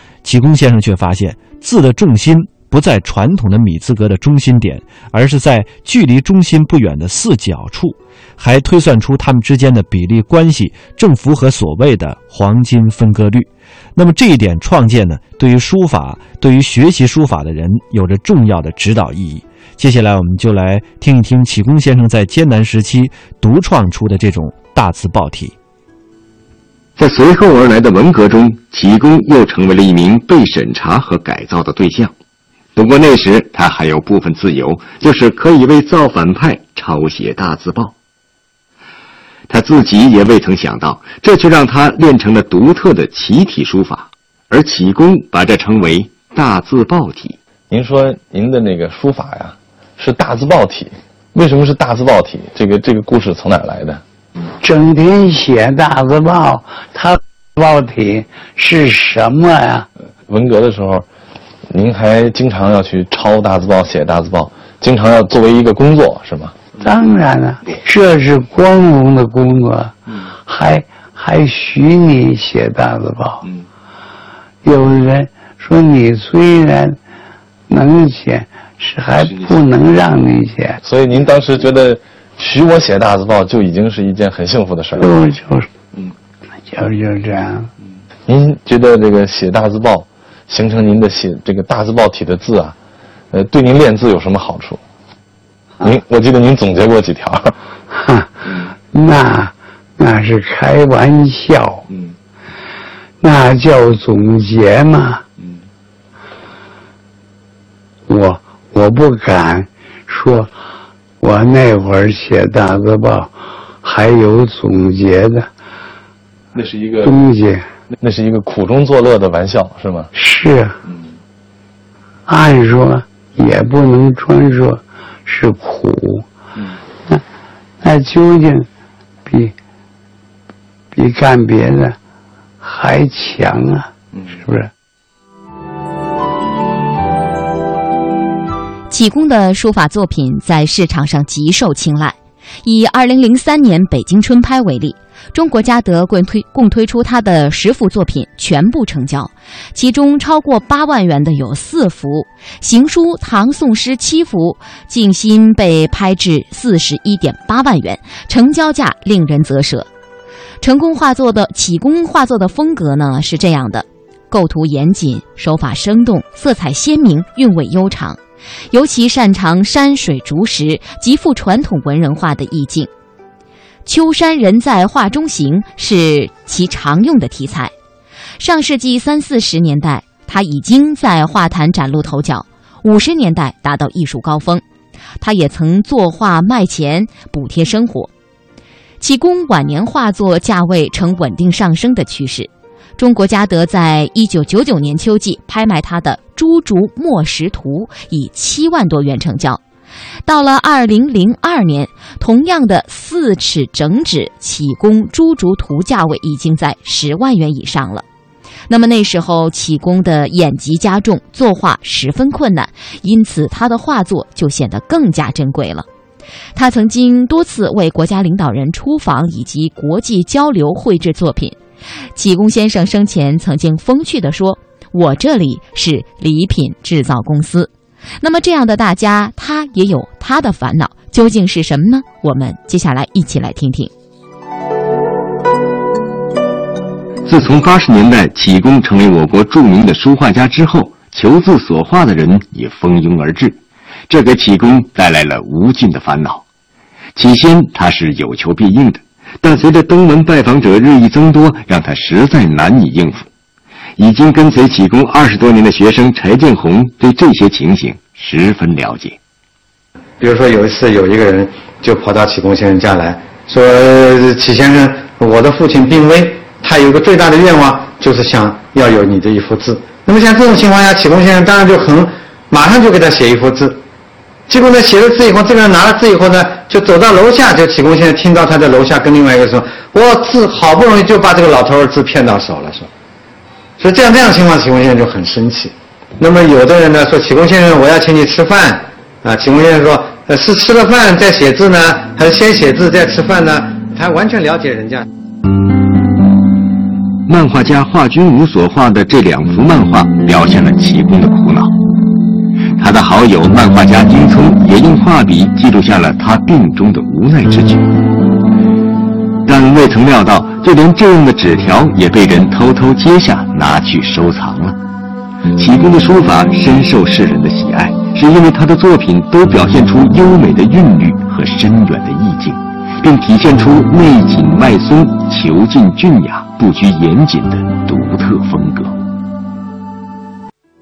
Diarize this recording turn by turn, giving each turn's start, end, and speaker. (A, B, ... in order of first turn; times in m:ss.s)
0:00.2-0:25.5 A
0:27.0-0:32.1 B
0:32.8-0:37.9 B
0:39.5-0:47.4 B
0:47.7-0:54.0 C
0:54.6-0:59.9 D
1:00.3-1:01.1 C
1:01.7-1:06.6 C
1:06.8-1:13.5 D
1:14.6-1:17.0 D
1:17.7-1:20.8 D
1:20.8-1:25.0 C
1:25.0-1:25.7 D
1:26.7-1:27.7 D
1:28.3-1:32.8 C
1:33.3-1:34.8 C
1:35.8-1:37.5 C
1:37.9-1:41.9 D
1:43.2-1:45.2 D
1:48.1-1:50.5 D
1:51.2-1:55.5 D
1:56.5-1:57.1 C
1:57.0-1:57.6 D
1:58.0-2:00.1 C
2:00.1-2:00.8 D
2:02.3-2:06.2 D
2:07.8-2:08.7 D
2:09.2-2:09.5 D
2:10.9-2:12.0 D
2:12.6-2:14.7 D
2:18.9-2:39.9 E
2:40.6-2:48.2 E
2:48.7-2:52.9 E
2:53.8-2:57.7 E
2:58.4-3:04.6 E
3:05.2-3:08.1 E
3:09.0-3:19.6 E
3:20.2-3:28.0 E
3:28.7-3:35.8 E
3:36.5-3:41.6 E
3:42.1-3:53.9 E
3:57.2-4:06.4 B
4:07.1-4:13.3 B
4:14.0-4:19.2 B
4:20.2-4:33.8 F
4:34.5-4:42.9 F
4:43.8-4:55.0 F
4:57.3-5:01.8 B
5:02.8-5:07.9 B
5:09.4-5:14.8 B
5:15.5-5:28.9 B